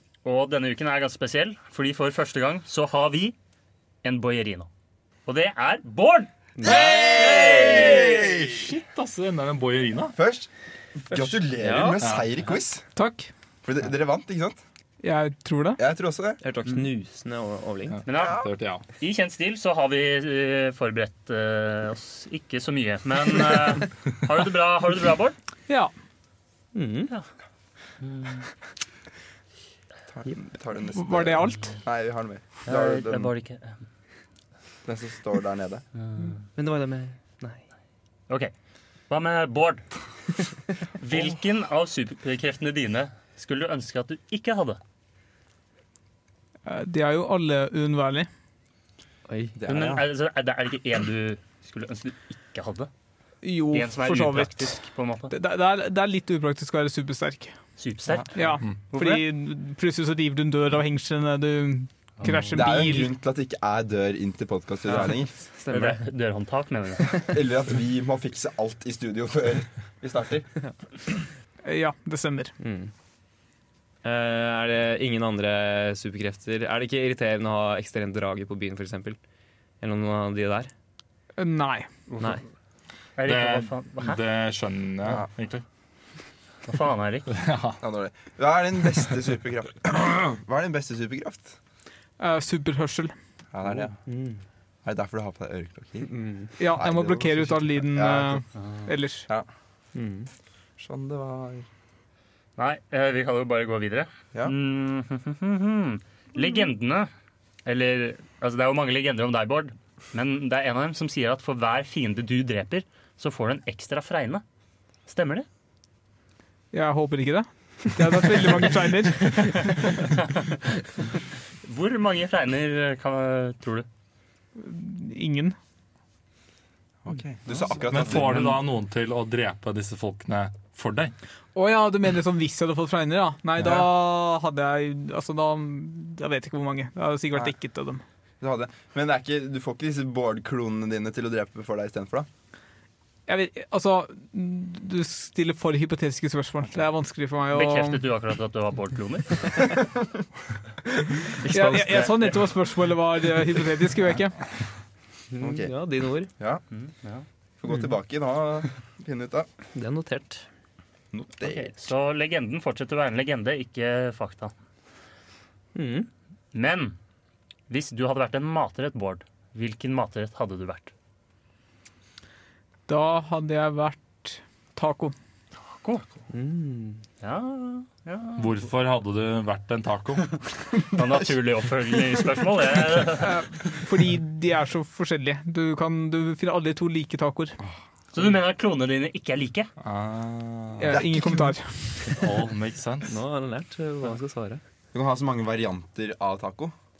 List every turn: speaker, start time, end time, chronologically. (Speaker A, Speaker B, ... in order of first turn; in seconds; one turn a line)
Speaker A: 0.2-3.4
Speaker A: 4.0-4.7
Speaker A: 5.3-6.3
Speaker B: 6.6-8.1
Speaker C: 6.6-10.2
Speaker D: 6.7-8.6
Speaker D: 10.2-12.8
Speaker B: 11.2-12.0
Speaker C: 12.0-12.3
Speaker E: 12.9-13.3
Speaker D: 13.6-14.6
Speaker E: 15.0-15.8
Speaker D: 15.8-16.4
Speaker B: 16.4-18.0
Speaker C: 17.9-18.8
Speaker A: 18.1-18.5
Speaker D: 18.1-18.5
Speaker A: 19.0-25.4
Speaker B: 26.7-27.1
Speaker A: 28.0-28.4
Speaker D: 30.1-33.3
Speaker E: 30.9-31.8
Speaker A: 32.7-33.8
Speaker D: 34.9-35.8
Speaker B: 36.5-37.6
Speaker A: 39.1-39.9
Speaker A: 41.0-44.8
Speaker E: 46.7-48.3
Speaker B: 49.3-49.6
Speaker D: 49.6-50.1
Speaker A: 49.7-52.9
Speaker E: 53.4-57.5
Speaker A: 53.7-55.3
Speaker A: 57.8-59.2
Speaker E: 58.4-63.1
Speaker A: 62.2-62.5
Speaker D: 62.5-65.3
Speaker B: 65.6-66.0
Speaker A: 65.7-67.2
Speaker D: 67.2-70.5
Speaker E: 71.7-72.5
Speaker B: 72.6-72.9
Speaker B: 74.0-79.2
Speaker B: 79.8-80.7
Speaker E: 81.4-81.9
Speaker A: 83.2-84.2
Speaker C: 83.2-85.6
Speaker D: 85.0-85.3
Speaker A: 86.7-87.3
Speaker C: 87.3-87.8
Speaker D: 87.8-91.6
Speaker E: 92.2-93.1
Speaker D: 93.5-94.0
Speaker B: 94.0-94.4
Speaker D: 94.8-96.1
Speaker B: 96.1-96.5
Speaker E: 96.6-99.3
Speaker D: 96.7-98.4
Speaker B: 100.0-100.3
Speaker D: 100.8-101.7
Speaker A: 102.6-107.1
Speaker A: 107.7-114.4
Speaker A: 115.1-115.5
Speaker E: 116.7-120.0
Speaker A: 119.9-120.4
Speaker A: 121.6-123.9
Speaker E: 124.6-125.6
Speaker D: 127.0-128.5
Speaker C: 127.8-131.1
Speaker A: 128.1-128.6
Speaker E: 131.6-138.0
Speaker D: 138.4-142.3
Speaker E: 143.3-148.0
Speaker A: 147.5-149.8
Speaker B: 151.4-152.3
Speaker E: 151.5-154.4
Speaker B: 155.3-156.3
Speaker D: 155.4-155.7
Speaker A: 156.7-157.2
Speaker D: 157.6-159.5
Speaker B: 159.8-160.5
Speaker D: 161.1-161.9
Speaker A: 161.4-164.5
Speaker B: 165.8-166.1
Speaker A: 166.5-167.0
Speaker A: 167.7-170.9
Speaker E: 172.9-175.2
Speaker A: 175.8-176.1
Speaker B: 176.3-177.0
Speaker A: 177.2-178.6
Speaker C: 178.4-180.3
Speaker A: 180.8-183.4
Speaker E: 183.2-187.6
Speaker A: 188.1-189.7
Speaker C: 189.8-191.1
Speaker E: 190.8-192.1
Speaker D: 190.9-191.5
Speaker C: 192.1-193.2
Speaker B: 193.1-194.6
Speaker D: 194.9-196.7